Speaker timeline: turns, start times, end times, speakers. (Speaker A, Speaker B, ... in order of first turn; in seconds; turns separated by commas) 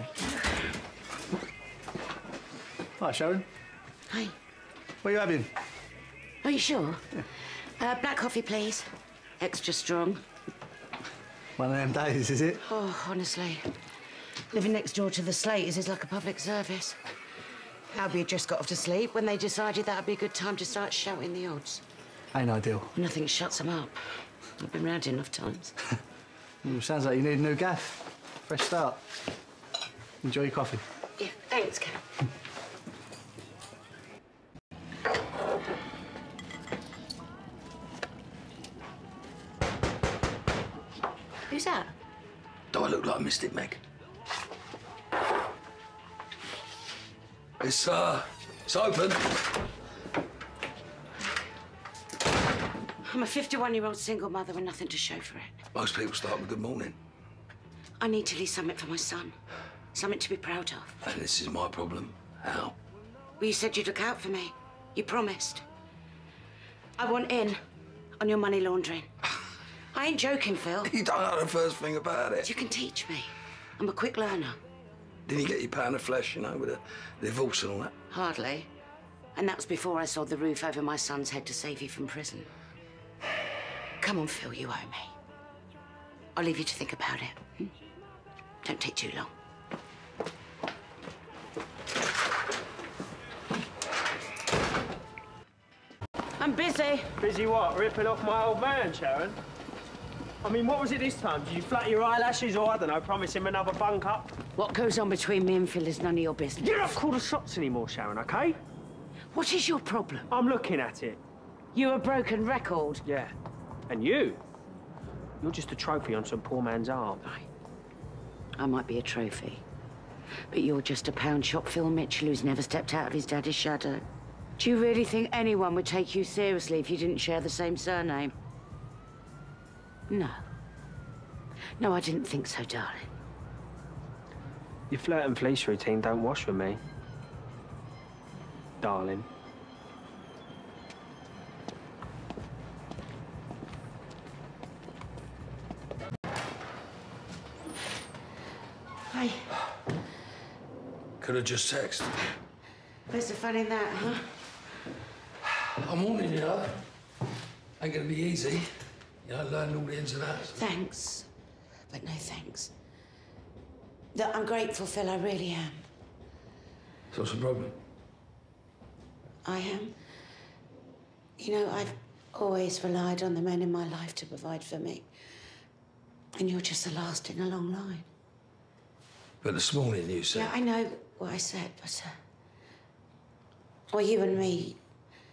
Speaker A: 3.0-3.5, Speaker B: 4.1-4.3, Speaker A: 5.0-5.5, Speaker B: 6.4-7.0, Speaker B: 7.8-8.9, Speaker B: 9.4-10.2, Speaker A: 11.6-12.6, Speaker B: 12.6-13.7, Speaker B: 14.5-17.0, Speaker B: 17.9-21.8, Speaker A: 22.3-22.9, Speaker B: 22.9-24.0, Speaker B: 24.6-25.7, Speaker A: 26.6-29.0, Speaker A: 30.2-30.8, Speaker B: 31.2-32.0, Speaker B: 41.5-41.9, Speaker C: 42.7-43.8, Speaker C: 47.6-49.2, Speaker B: 53.0-55.6, Speaker C: 55.7-57.0, Speaker B: 58.0-59.4, Speaker B: 59.9-61.0, Speaker C: 61.0-62.7, Speaker B: 63.4-65.7, Speaker B: 67.0-67.6, Speaker B: 68.2-69.1, Speaker B: 69.9-70.9, Speaker C: 70.8-72.5, Speaker B: 72.4-74.6, Speaker C: 75.2-77.9, Speaker B: 78.1-78.7, Speaker B: 79.3-82.5, Speaker B: 84.0-85.2, Speaker B: 86.3-87.7, Speaker B: 88.6-89.3, Speaker B: 96.4-97.1, Speaker D: 97.2-99.4, Speaker D: 100.4-104.3, Speaker B: 104.5-106.9, Speaker D: 106.6-108.6, Speaker B: 109.3-110.3, Speaker D: 110.3-111.2, Speaker B: 111.7-113.0, Speaker D: 113.1-113.3, Speaker D: 113.9-114.4, Speaker D: 115.4-117.2, Speaker B: 118.6-119.6, Speaker B: 120.5-124.0, Speaker B: 124.6-128.3, Speaker B: 130.1-130.4, Speaker B: 131.8-133.1, Speaker D: 134.9-136.8, Speaker D: 138.8-139.3, Speaker B: 149.1-149.5, Speaker C: 151.2-152.1, Speaker B: 153.1-154.4, Speaker C: 155.8-156.8, Speaker C: 157.8-158.7, Speaker C: 159.2-160.6, Speaker B: 160.5-161.3, Speaker B: 161.9-162.7, Speaker B: 164.1-165.8, Speaker C: 167.1-167.8, Speaker B: 169.4-169.9, Speaker B: 171.4-175.1, Speaker B: 176.4-178.1, Speaker C: 179.4-180.5, Speaker B: 180.3-182.1, Speaker B: 183.9-184.8